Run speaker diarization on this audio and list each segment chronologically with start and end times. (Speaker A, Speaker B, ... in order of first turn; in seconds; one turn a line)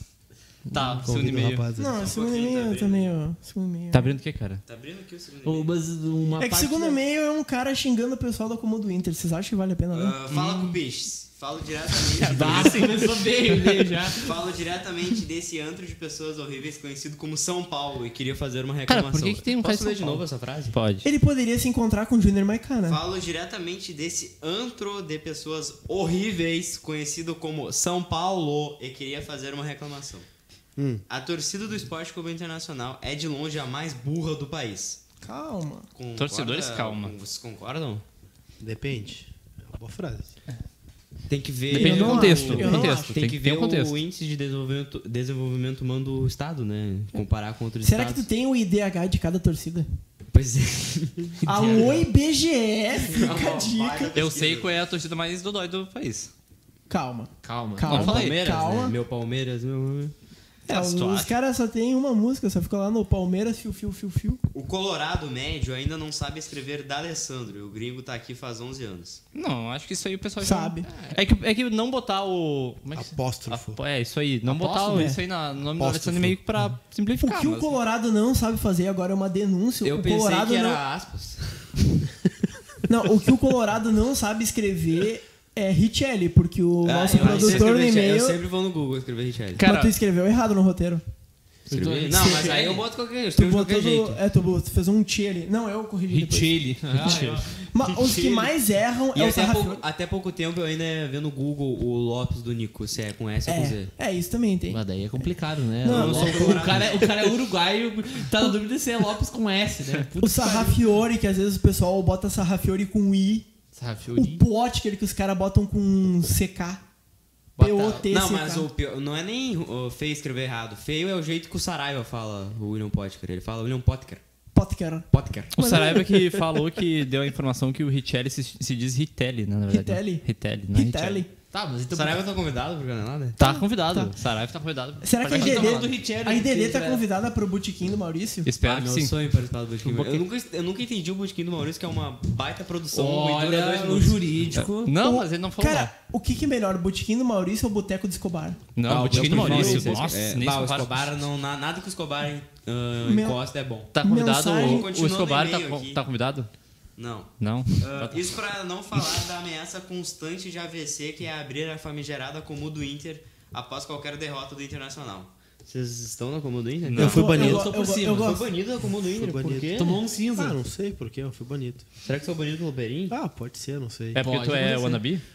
Speaker A: 0.7-1.6
Speaker B: 1.0-2.0
Speaker C: 1.8-4.1
Speaker D: 2.0-3.1
Speaker A: 3.9-4.6
Speaker D: 4.7-5.7
Speaker E: 5.4-7.0
Speaker C: 6.4-10.2
Speaker D: 9.9-13.0
Speaker A: 10.3-10.8
Speaker A: 12.2-13.7
Speaker E: 12.2-14.3
Speaker D: 14.2-20.8
Speaker A: 18.9-21.1
Speaker C: 21.0-23.0
Speaker D: 22.9-30.2
Speaker B: 30.8-31.0
Speaker D: 31.1-35.0
Speaker C: 35.2-35.9
Speaker D: 35.9-38.0
Speaker A: 36.1-37.1
Speaker B: 38.6-40.3
Speaker D: 41.3-48.3
Speaker C: 41.7-43.1
Speaker A: 41.7-44.0
Speaker C: 47.8-49.9
Speaker D: 50.3-52.0
Speaker E: 51.4-52.0
Speaker C: 51.4-54.2
Speaker D: 52.9-54.7
Speaker A: 54.1-56.3
Speaker C: 56.9-59.0
Speaker E: 57.4-58.2
Speaker A: 57.9-58.5
Speaker D: 57.9-60.1
Speaker C: 60.7-64.4
Speaker A: 60.7-61.3
Speaker D: 64.5-69.2
Speaker A: 69.3-77.7
Speaker C: 70.4-70.9
Speaker B: 72.9-73.8
Speaker E: 74.5-75.0
Speaker C: 74.8-75.2
Speaker B: 75.7-76.4
Speaker C: 77.2-80.8
Speaker D: 79.8-81.7
Speaker C: 82.9-88.4
Speaker D: 86.8-89.6
Speaker E: 87.2-87.6
Speaker A: 89.6-89.9
Speaker C: 89.6-91.0
Speaker E: 91.7-92.8
Speaker D: 91.7-94.2
Speaker C: 93.3-96.6
Speaker E: 96.1-97.5
Speaker A: 97.0-97.4
Speaker D: 97.0-98.5
Speaker C: 97.1-99.8
Speaker D: 99.1-103.9
Speaker C: 103.5-105.2
Speaker E: 104.7-110.8
Speaker C: 105.8-107.0
Speaker D: 105.8-107.2
Speaker C: 110.2-113.5
Speaker E: 113.7-114.4
Speaker C: 114.1-116.8
Speaker C: 117.6-118.7
Speaker E: 117.6-117.9
Speaker D: 117.6-124.2
Speaker C: 124.5-126.5
Speaker D: 125.1-125.5
Speaker A: 125.5-131.2
Speaker C: 129.7-131.3
Speaker E: 131.5-132.2
Speaker D: 131.9-133.4
Speaker C: 133.4-134.1
Speaker A: 133.4-135.9
Speaker C: 135.0-138.5
Speaker E: 135.3-137.0
Speaker A: 138.4-139.2
Speaker D: 138.6-144.2
Speaker A: 139.8-140.2
Speaker E: 142.9-144.9
Speaker A: 144.5-145.9
Speaker C: 144.9-148.6
Speaker A: 148.8-151.0
Speaker D: 148.8-153.9
Speaker E: 148.9-150.0
Speaker C: 153.0-153.4
Speaker A: 153.9-156.5
Speaker C: 154.0-154.9
Speaker D: 154.6-156.0
Speaker D: 157.0-167.2
Speaker A: 157.4-158.3
Speaker A: 166.8-167.3
Speaker B: 166.9-167.7
Speaker C: 167.0-168.4
Speaker E: 167.3-168.3
Speaker D: 168.1-170.0
Speaker B: 169.1-171.8
Speaker E: 169.7-170.6
Speaker D: 172.0-173.1
Speaker B: 173.1-174.2
Speaker A: 174.1-175.2
Speaker E: 174.2-175.0